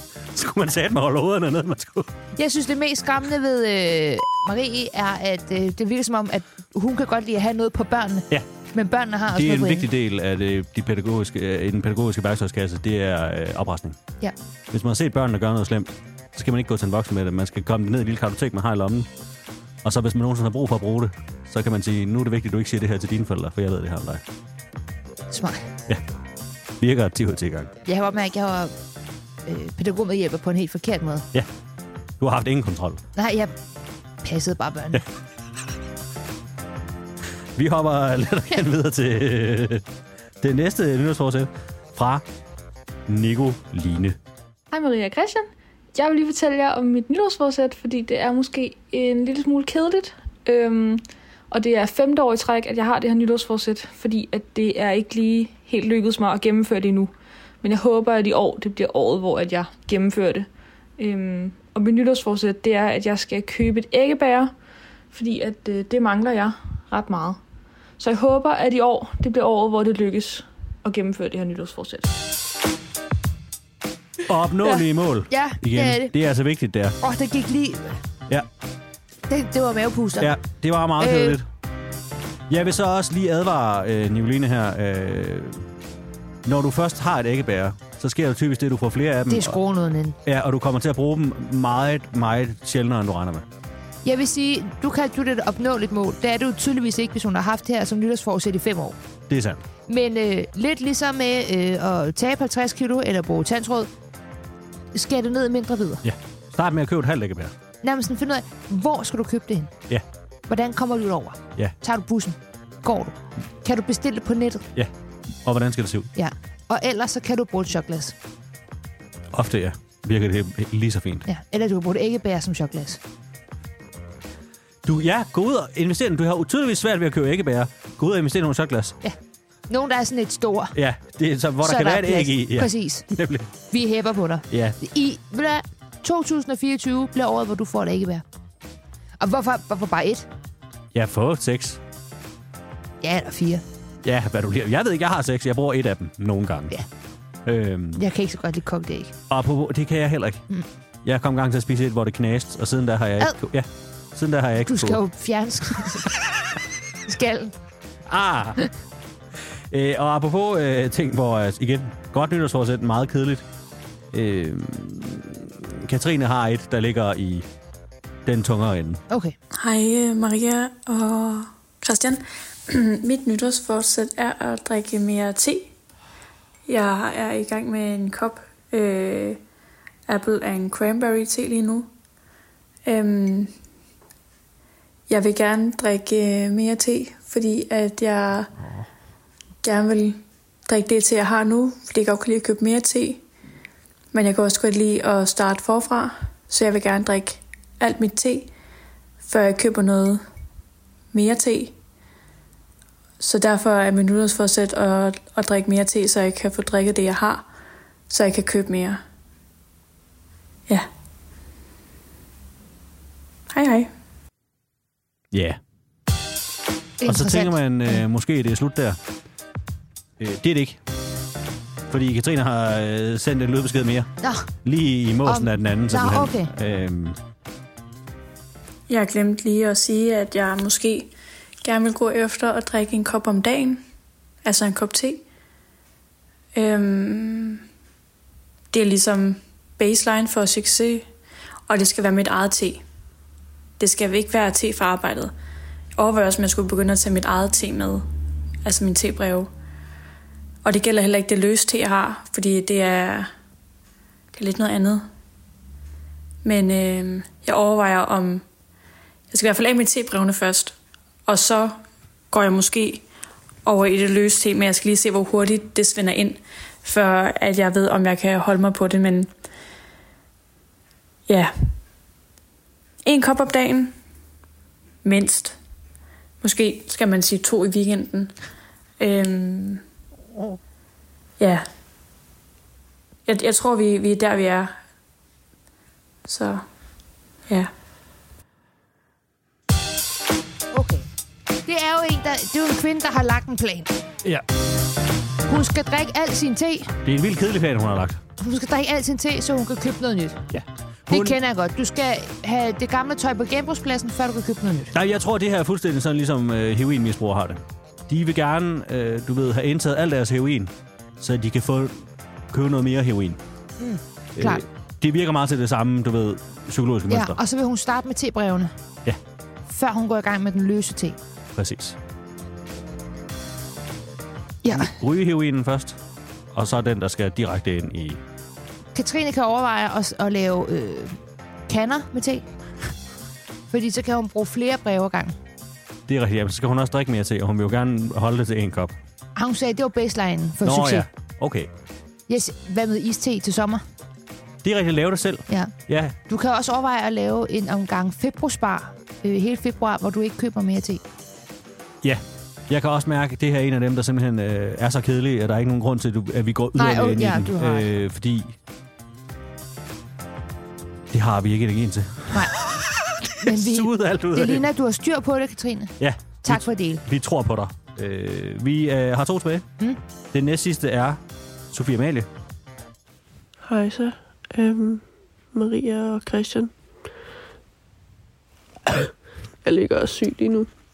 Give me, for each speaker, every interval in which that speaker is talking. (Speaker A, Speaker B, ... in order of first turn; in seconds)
Speaker A: 0.3-2.1, 9.3-14.0, 14.7-19.1, 19.8-24.2, 26.8-27.7, 32.2-33.0, 37.5-39.9, 40.4-42.2, 43.1-44.2, 74.3-77.0, 80.2-81.5, 82.5-85.7, 86.4-89.6, 90.2-93.5, 99.3-99.6, 106.0-107.5, 115.4-116.1, 119.3-121.2, 124.8-129.0, 130.7-133.5, 134.5-134.8, 140.9-141.8, 144.0-146.8, 147.4-148.0, 149.3-150.4, 151.0-155.0, 158.1-158.7, 159.7-163.4, 164.1-167.5, 168.2-169.0, 215.3-215.6, 217.0-219.0, 220.2-220.8, 221.9-224.1, 224.6-227.2, 297.0-298.2, 300.5-301.4, 304.9-313.4, 314.4-317.4, 321.5-322.0, 324.7-326.0, 326.5-328.2, 336.1-338.9, 340.6-341.7, 344.6-346.1, 352.0-358.5, 361.1-364.7, 366.0-369.6, 370.3-372.3
Speaker B: 2.4-9.9, 25.3-25.6, 27.8-28.7, 29.4-31.3, 33.1-33.5, 34.2-35.0, 74.6-76.1, 77.0-78.0, 79.3-80.3, 81.0-81.4, 89.3-90.2, 94.0-99.0, 99.9-103.9, 104.9-106.0, 107.8-109.7, 110.5-114.7, 116.1-118.1, 121.2-123.0, 129.7-130.8, 131.6-133.1, 133.7-138.2, 139.2-140.3, 143.0-143.6, 147.9-149.1, 154.7-156.1, 157.1-157.5, 169.1-169.3, 217.0-218.0, 224.2-224.5, 225.2-226.5, 290.7-291.1, 291.6-293.9, 295.4-296.9, 298.4-300.4, 301.1-304.9, 313.8-314.6, 317.1-318.7, 319.7-321.2, 324.6-324.9, 328.9-331.2, 331.7-332.4, 333.7-335.4, 339.4-341.1, 342.3-343.8, 346.3-351.0, 356.8-357.9, 363.4-367.0
Speaker C: 44.7-60.5, 61.0-64.5, 65.1-67.4, 68.0-72.1
Speaker D: 169.6-175.7, 176.7-179.4, 180.1-181.9, 182.8-183.5, 185.1-188.5, 189.6-193.2, 194.1-198.5, 199.2-200.2, 201.1-201.8, 203.2-207.5, 208.1-209.0, 213.5-213.9, 228.9-231.1, 231.6-233.8, 234.4-235.2, 236.5-237.6, 238.7-241.1, 241.7-242.8, 243.8-245.3, 245.9-248.1, 248.6-249.5, 250.6-253.3, 254.3-255.1, 256.4-258.4, 259.3-261.8, 262.3-263.1, 263.6-269.3, 271.3-271.7, 273.0-273.9, 275.0-275.6, 276.4-278.3, 279.0-279.8, 281.4-281.6, 283.3-284.8, 286.2-286.6
Speaker E: 373.6-376.7, 379.6-380.7